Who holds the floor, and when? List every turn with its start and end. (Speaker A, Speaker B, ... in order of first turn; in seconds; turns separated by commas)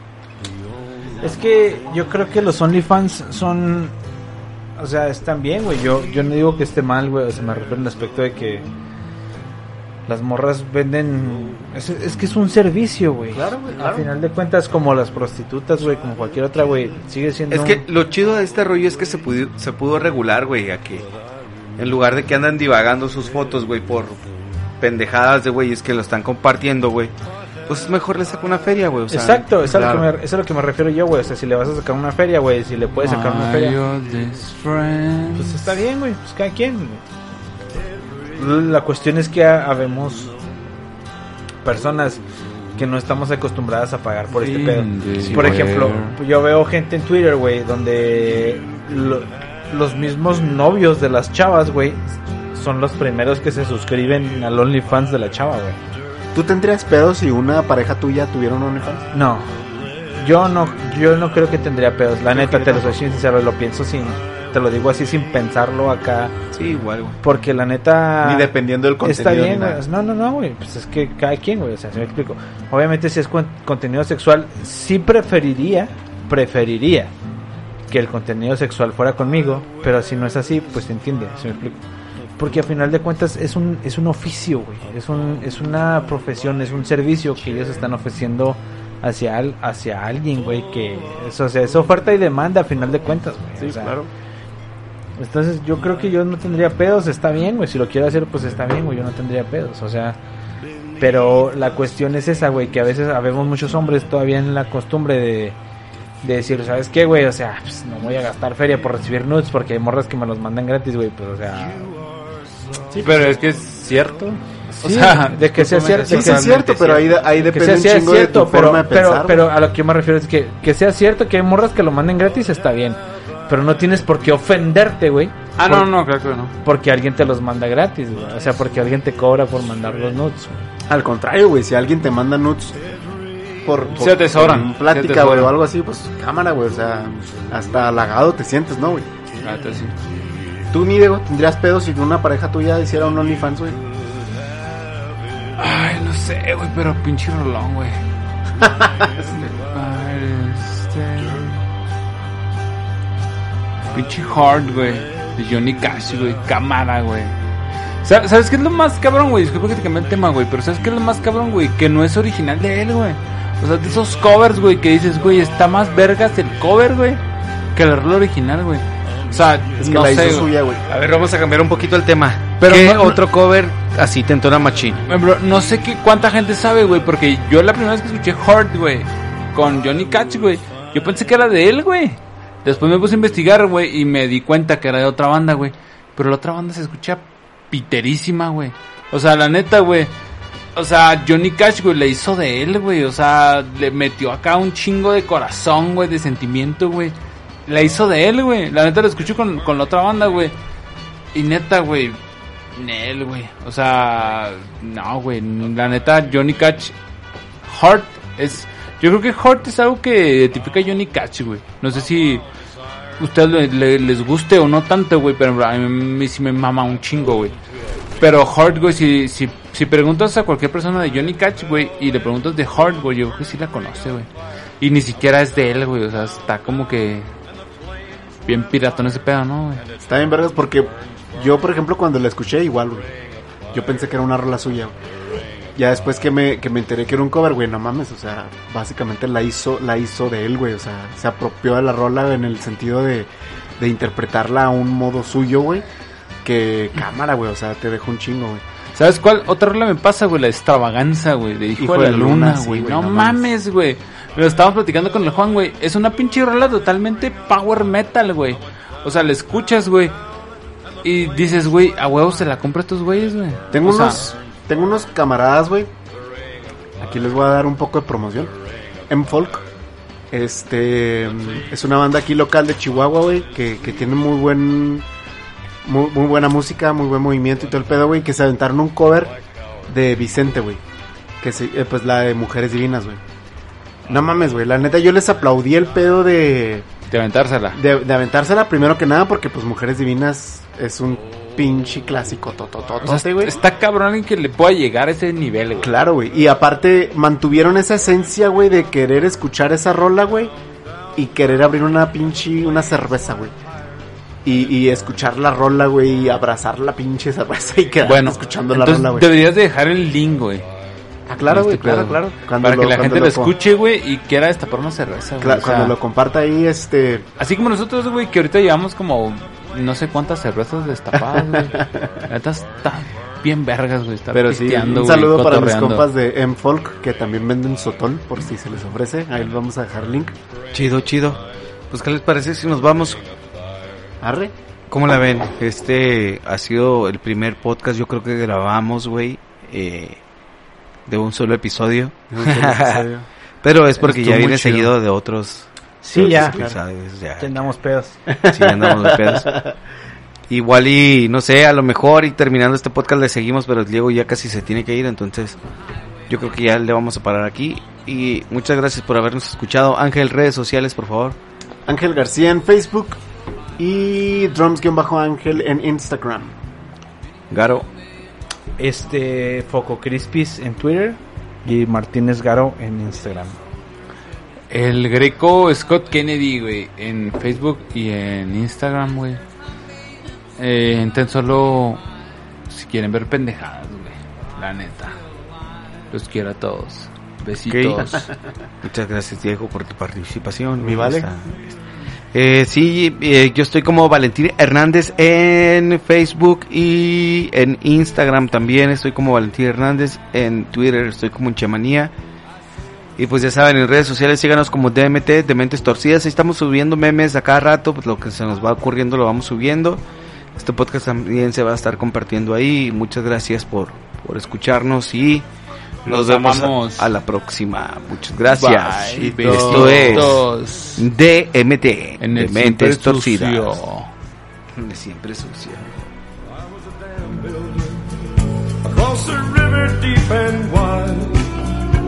Speaker A: 1.2-3.9, Speaker A: 4.8-8.7, Speaker A: 10.1-17.8, Speaker B: 13.3-14.1, Speaker C: 17.5-21.1, Speaker C: 21.8-24.2, Speaker C: 24.8-27.1, Speaker C: 27.7-29.5, Speaker A: 29.1-33.8, Speaker B: 29.6-30.0, Speaker D: 33.0-35.6, Speaker A: 35.3-37.0, Speaker A: 38.4-40.3, Speaker A: 41.6-42.2, Speaker A: 42.8-55.8, Speaker D: 44.3-46.2, Speaker B: 56.3-59.1, Speaker A: 59.1-59.5, Speaker A: 60.1-66.3, Speaker B: 62.3-63.0, Speaker C: 66.5-67.2, Speaker A: 67.2-68.5, Speaker B: 68.2-69.8, Speaker A: 69.0-77.1, Speaker A: 77.9-81.8, Speaker A: 82.4-94.0, Speaker B: 93.6-94.1, Speaker A: 95.2-100.2, Speaker A: 101.0-105.6, Speaker A: 106.2-112.0, Speaker D: 113.0-116.1, Speaker A: 114.8-125.9, Speaker C: 115.6-117.0, Speaker B: 116.0-119.5, Speaker D: 125.6-126.5, Speaker A: 126.6-130.7, Speaker B: 130.9-132.8, Speaker B: 133.6-139.1, Speaker D: 133.9-135.5, Speaker D: 139.4-139.9, Speaker B: 140.7-143.8, Speaker D: 145.6-148.0, Speaker B: 148.6-149.3, Speaker D: 149.3-151.6, Speaker D: 153.9-157.3, Speaker D: 158.0-167.2, Speaker D: 167.7-170.5, Speaker B: 169.8-170.8, Speaker C: 170.9-175.0, Speaker D: 172.6-173.2, Speaker D: 175.1-190.1, Speaker D: 190.7-197.1, Speaker D: 197.7-200.5, Speaker D: 201.3-202.2, Speaker D: 202.7-206.9, Speaker D: 207.6-212.4, Speaker D: 213.2-217.5, Speaker D: 218.2-224.3, Speaker D: 224.8-227.3, Speaker D: 228.4-229.8, Speaker B: 230.0-233.1, Speaker B: 233.7-234.9, Speaker B: 235.8-245.8, Speaker B: 246.4-248.6, Speaker D: 248.9-260.1, Speaker B: 251.8-253.4, Speaker D: 261.0-264.2, Speaker B: 263.7-265.9, Speaker B: 267.0-268.5, Speaker B: 269.1-269.6, Speaker B: 270.3-275.0, Speaker B: 275.8-279.3, Speaker B: 279.9-280.8, Speaker B: 281.4-283.2, Speaker B: 284.1-286.9, Speaker D: 287.1-287.8, Speaker B: 287.7-293.6, Speaker D: 293.0-295.9, Speaker B: 295.8-300.5, Speaker B: 301.1-303.5, Speaker B: 304.4-309.3, Speaker D: 308.0-310.6, Speaker B: 311.3-313.5, Speaker D: 311.4-315.9, Speaker B: 315.4-317.2, Speaker D: 317.4-326.0, Speaker B: 321.2-322.1, Speaker B: 324.3-330.3, Speaker C: 330.7-333.2, Speaker B: 334.2-334.5, Speaker C: 334.9-340.2, Speaker C: 341.1-343.1, Speaker B: 342.3-343.2, Speaker C: 343.6-347.5, Speaker B: 344.0-344.5, Speaker D: 344.4-344.8, Speaker A: 346.0-346.6, Speaker B: 346.1-346.8, Speaker A: 347.4-348.2, Speaker B: 348.3-349.7, Speaker C: 348.4-349.5, Speaker C: 350.5-355.6, Speaker C: 356.3-361.4, Speaker B: 361.9-363.2, Speaker B: 363.8-366.6, Speaker C: 367.5-367.9, Speaker A: 368.8-373.6, Speaker D: 374.7-379.4, Speaker D: 380.6-382.0, Speaker D: 382.7-385.2, Speaker D: 386.1-388.3, Speaker C: 387.7-388.2, Speaker C: 388.8-391.7, Speaker B: 390.8-391.3, Speaker C: 392.3-402.1, Speaker C: 403.2-410.0, Speaker C: 410.6-415.4, Speaker C: 416.0-420.4, Speaker D: 416.1-417.1, Speaker D: 418.5-421.0, Speaker B: 419.1-420.4, Speaker C: 421.0-423.8, Speaker D: 422.2-424.1, Speaker C: 424.7-425.9, Speaker E: 426.6-431.5